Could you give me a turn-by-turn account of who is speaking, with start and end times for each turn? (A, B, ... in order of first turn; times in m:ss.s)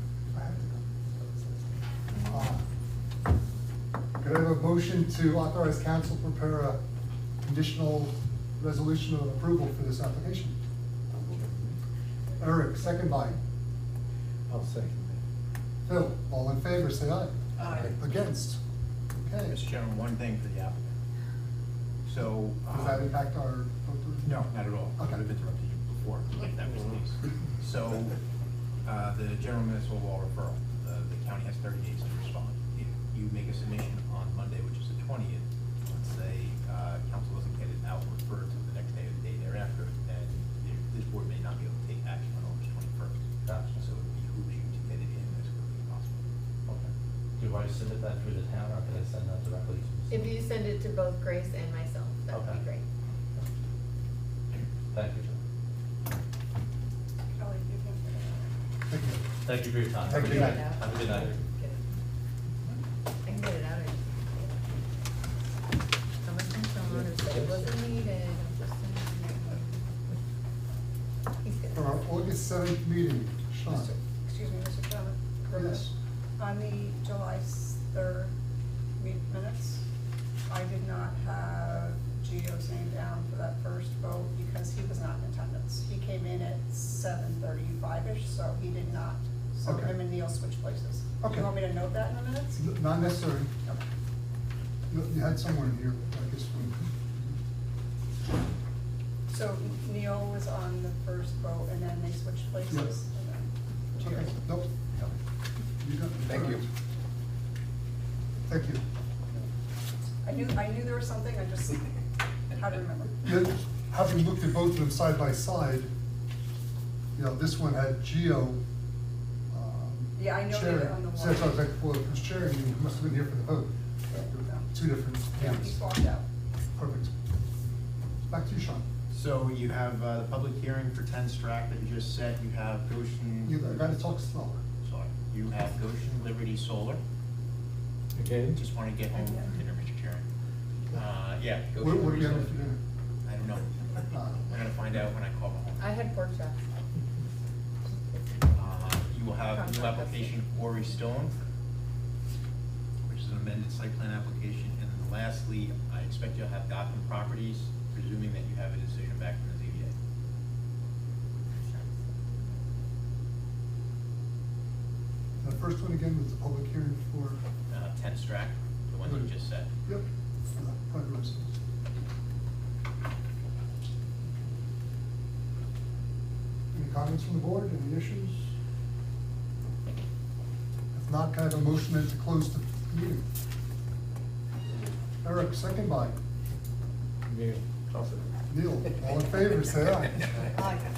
0:00.3-0:01.5 A
0:02.2-0:02.6 A
0:04.2-0:06.8 A
0:07.4-0:10.6 A
0:11.1-0:11.8 B
0:12.4-0:13.4 A
0:14.5-0:15.2 B
0:15.8-0:18.6 A
0:19.1-0:19.6 A
0:19.5-0:20.9 C
0:22.0-0:23.1 C
0:22.7-0:25.2 A
0:24.2-0:28.2 C
0:28.8-0:46.2 C
0:43.4-0:43.8 D
0:46.7-0:50.4 D
0:50.1-0:52.8 E
0:52.3-0:52.6 D
0:54.5-0:55.4 D
0:57.2-0:58.5 F
0:58.9-0:59.2 A
0:59.4-1:01.4 D
1:00.0-1:02.0 E
1:00.1-1:00.6 A
1:03.2-1:04.7 E
1:06.2-1:09.9 E
1:06.8-1:07.8 B
1:11.4-1:11.9 E
1:11.7-1:13.9 A
1:13.7-1:18.3 F
1:15.5-1:15.9 A
1:19.0-1:19.8 F
1:20.5-1:32.6 F
1:29.6-1:30.0 A
1:31.2-1:31.5 A
1:32.6-1:33.5 A
1:34.9-1:37.4 A
1:39.3-1:44.3 F
1:44.0-1:45.1 A
1:45.8-1:46.7 A
1:48.5-1:48.8 A
1:50.2-1:53.3 F
1:53.2-1:55.9 A
1:57.1-1:58.6 A
1:59.5-2:05.8 A
2:00.2-2:01.6 F
2:04.1-2:04.7 F
2:05.3-2:06.2 F
2:06.8-2:07.1 A
2:08.3-2:08.9 A
2:09.1-2:14.0 C
2:13.4-2:14.6 A
2:14.8-2:17.0 C
2:18.2-2:18.6 B
2:18.5-2:20.2 C
2:20.9-2:22.5 C
2:21.8-2:22.8 A
2:23.2-2:23.8 C
2:24.1-2:24.5 A
2:24.4-2:26.0 C
2:25.8-2:26.6 E
2:27.8-2:28.7 E
2:28.5-2:31.3 C
2:29.4-2:30.9 E
2:33.1-2:39.9 C
2:41.6-2:42.2 E
2:45.4-2:47.4 A
2:47.7-2:49.7 C
2:49.0-2:49.3 A
2:49.8-2:51.5 A
2:56.7-2:58.6 A
3:00.9-3:03.3 A
3:05.2-3:06.2 A
3:07.2-3:08.3 B
3:08.5-3:10.5 A